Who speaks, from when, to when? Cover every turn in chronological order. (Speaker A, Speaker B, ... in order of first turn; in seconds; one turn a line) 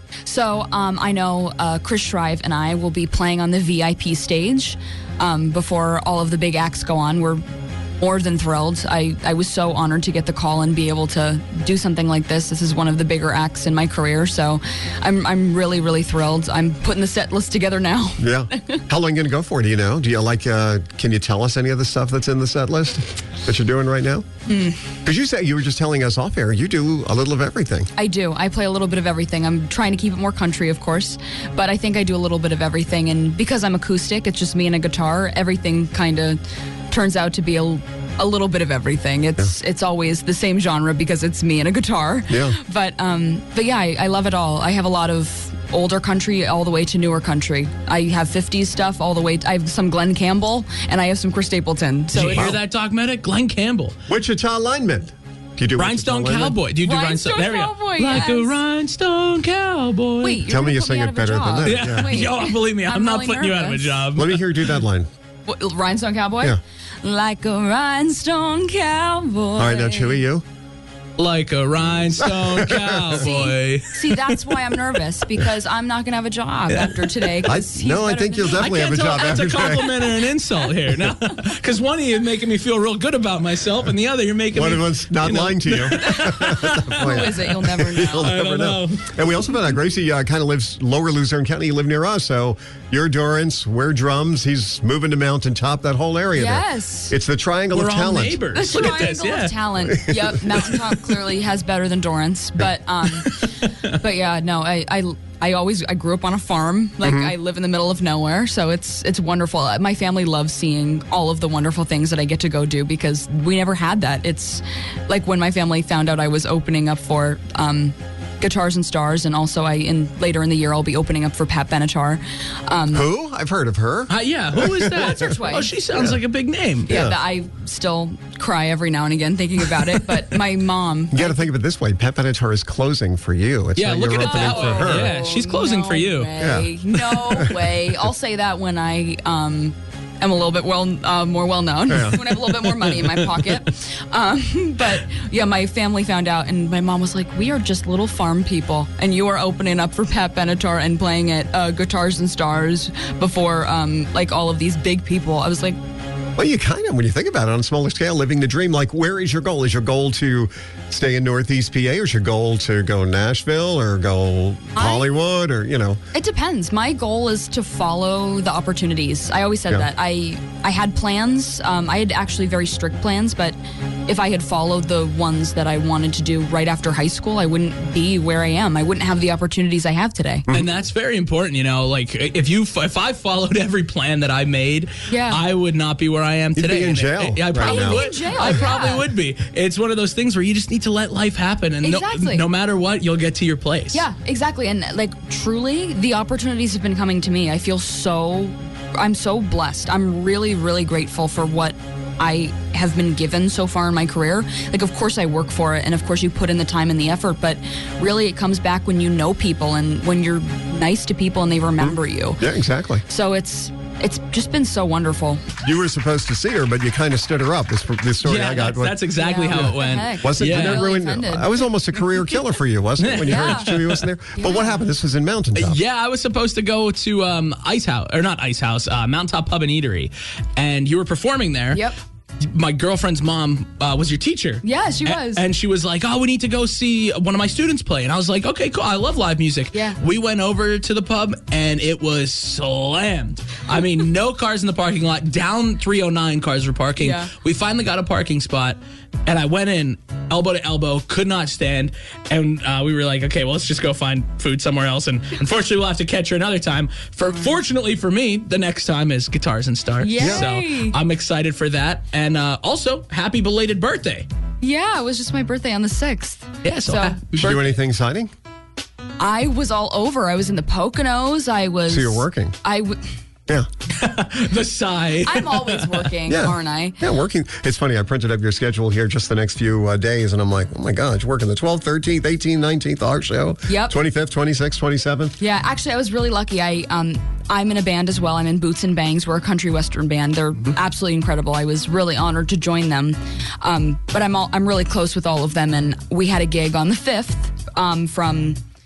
Speaker A: 0.2-7.4
Speaker A: 8.0-18.8
Speaker B: 18.2-24.2
Speaker A: 24.5-24.9
Speaker B: 25.0-27.9
Speaker A: 27.9-52.4
Speaker B: 42.3-42.6
Speaker C: 52.1-54.0
Speaker B: 52.2-52.6
Speaker B: 54.1-56.6
Speaker C: 55.8-60.5
Speaker A: 56.8-58.6
Speaker A: 60.2-64.0
Speaker B: 60.4-62.3
Speaker C: 61.6-64.7
Speaker B: 64.1-65.1
Speaker A: 65.5-70.2
Speaker B: 69.6-70.4
Speaker C: 71.2-74.8
Speaker B: 72.2-73.3
Speaker A: 73.2-78.6
Speaker C: 76.7-77.5
Speaker B: 77.4-79.9
Speaker C: 78.5-89.5
Speaker B: 84.5-98.5
Speaker A: 87.0-88.2
Speaker A: 96.4-97.1
Speaker C: 97.7-101.1
Speaker A: 98.5-103.3
Speaker B: 99.8-100.8
Speaker C: 103.1-103.9
Speaker A: 104.0-123.0
Speaker B: 107.0-107.3
Speaker B: 122.9-125.4
Speaker C: 124.1-126.9
Speaker A: 125.2-125.7
Speaker B: 125.9-126.2
Speaker B: 126.9-127.2
Speaker A: 126.9-131.4
Speaker B: 131.1-135.2
Speaker C: 133.8-136.3
Speaker A: 134.3-155.8
Speaker B: 136.4-138.0
Speaker C: 136.9-137.5
Speaker B: 141.9-142.3
Speaker C: 141.9-143.4
Speaker B: 156.3-166.0
Speaker A: 164.8-165.1
Speaker A: 166.1-180.5
Speaker B: 180.5-180.7
Speaker C: 180.5-194.0
Speaker A: 185.1-185.4
Speaker B: 186.6-188.7
Speaker A: 187.7-189.0
Speaker A: 191.8-192.4
Speaker A: 193.9-212.4
Speaker B: 211.8-213.0
Speaker A: 213.1-215.5
Speaker B: 215.6-225.8
Speaker C: 218.2-220.9
Speaker A: 219.2-221.5
Speaker C: 223.0-224.1
Speaker A: 223.3-223.7
Speaker A: 224.4-224.7
Speaker C: 225.5-231.8
Speaker A: 231.7-232.0
Speaker C: 232.4-264.2
Speaker A: 234.6-235.4
Speaker A: 239.7-240.0
Speaker A: 247.0-247.3
Speaker A: 260.0-260.9
Speaker B: 260.2-260.5
Speaker A: 264.6-267.2
Speaker C: 266.6-267.7
Speaker B: 267.3-268.3
Speaker A: 269.2-273.0
Speaker B: 271.9-272.6
Speaker C: 273.9-276.1
Speaker A: 275.3-277.0
Speaker B: 276.2-285.4
Speaker A: 283.7-283.9
Speaker A: 285.4-298.6